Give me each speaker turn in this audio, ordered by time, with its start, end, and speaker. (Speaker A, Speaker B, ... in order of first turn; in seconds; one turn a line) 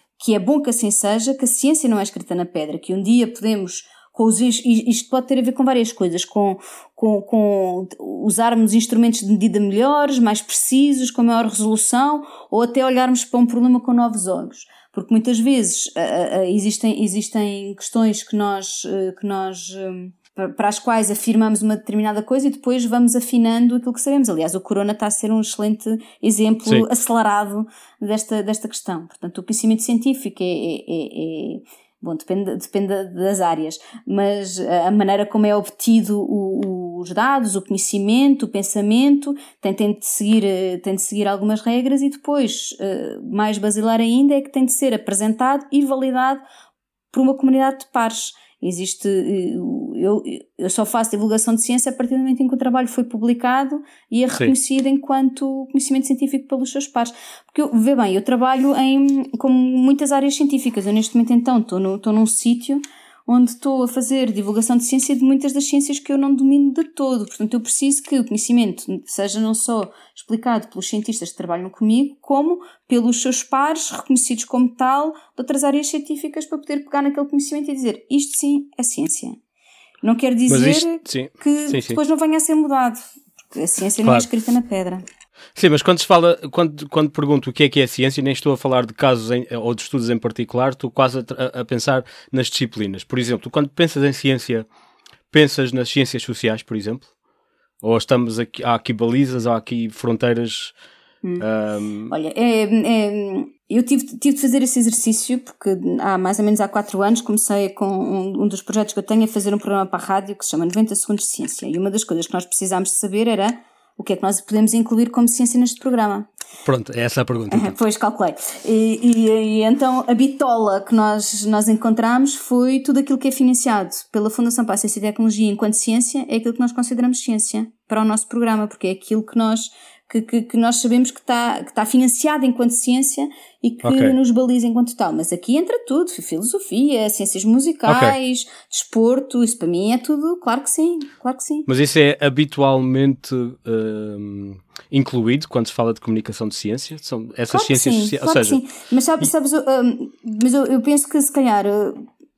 Speaker A: 0.2-46.4
Speaker A: 47.1-79.4
Speaker A: 80.0-85.0
Speaker B: 80.5-82.0
Speaker B: 85.5-94.7
Speaker B: 95.3-97.1
Speaker B: 97.8-100.7
Speaker B: 101.4-102.1
Speaker A: 102.1-116.3
Speaker B: 116.6-117.7
Speaker A: 117.5-141.7
Speaker B: 133.8-134.1
Speaker B: 137.9-138.2
Speaker B: 141.7-148.6
Speaker A: 147.5-152.0